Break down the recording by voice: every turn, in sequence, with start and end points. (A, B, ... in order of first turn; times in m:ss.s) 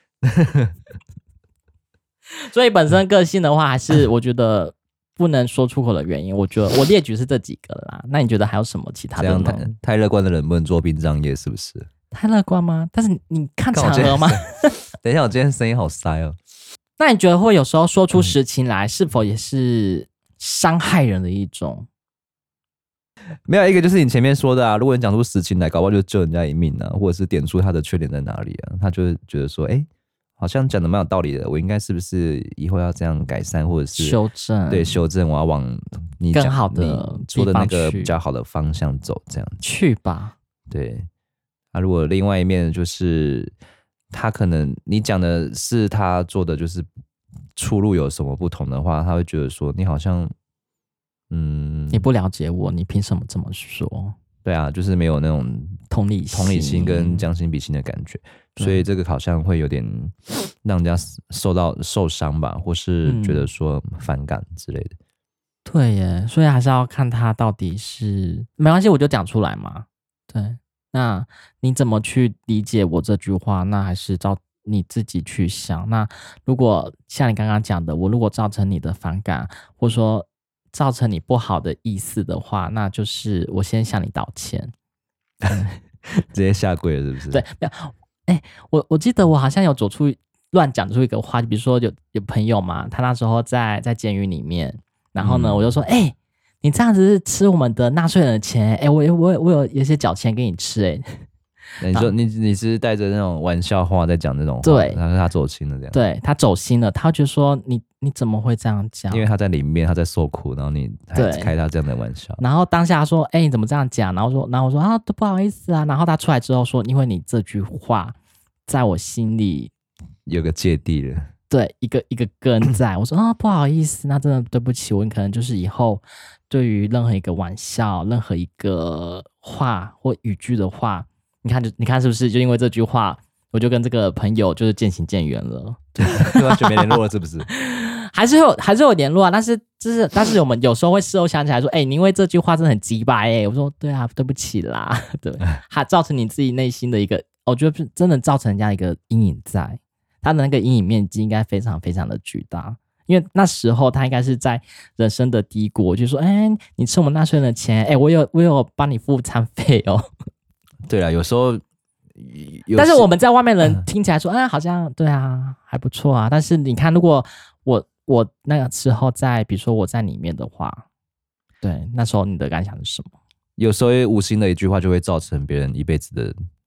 0:00.2-0:00.7 A
0:02.4-0:09.7 B
0:09.2-0:11.9 A
0:12.1-0:14.7 B
0:13.7-0:14.4 A
0:15.0-0:16.4 A
0:17.0-0:21.9 B
0:23.4-0:29.9 A
0:30.4-0:34.2 A
0:33.9-0:35.0 B
0:34.7-0:39.6 A
0:36.3-0:38.1 B
0:39.6-0:40.3 B
0:40.7-0:41.1 A
0:41.7-0:43.5 A
0:44.1-0:46.9 A
0:47.6-0:50.3 A
0:51.3-0:52.1 A
0:51.9-0:54.1 B
0:54.4-0:55.8 A
0:55.9-0:57.2 B
0:56.3-1:04.9 A
0:58.6-0:58.8 B
1:03.0-1:03.5 B
1:05.6-1:24.7 B
1:25.5-1:25.8 B
1:26.3-1:27.4 A
1:27.3-1:41.0 B
1:35.2-1:35.7 A
1:41.8-1:46.0 A
1:44.6-1:45.0 B
1:45.9-1:49.3 B
1:49.1-1:52.4 A
1:51.1-1:51.5 B
1:52.4-1:58.1 B
1:58.6-1:59.7 B
2:00.2-2:01.3 A
2:01.5-2:16.9 B
2:16.0-2:17.5 A
2:17.5-2:40.1 B
2:40.9-2:41.6 A
2:42.2-2:43.1 A
2:42.8-2:50.8 B
2:51.6-2:53.1 B
2:53.6-2:56.3 A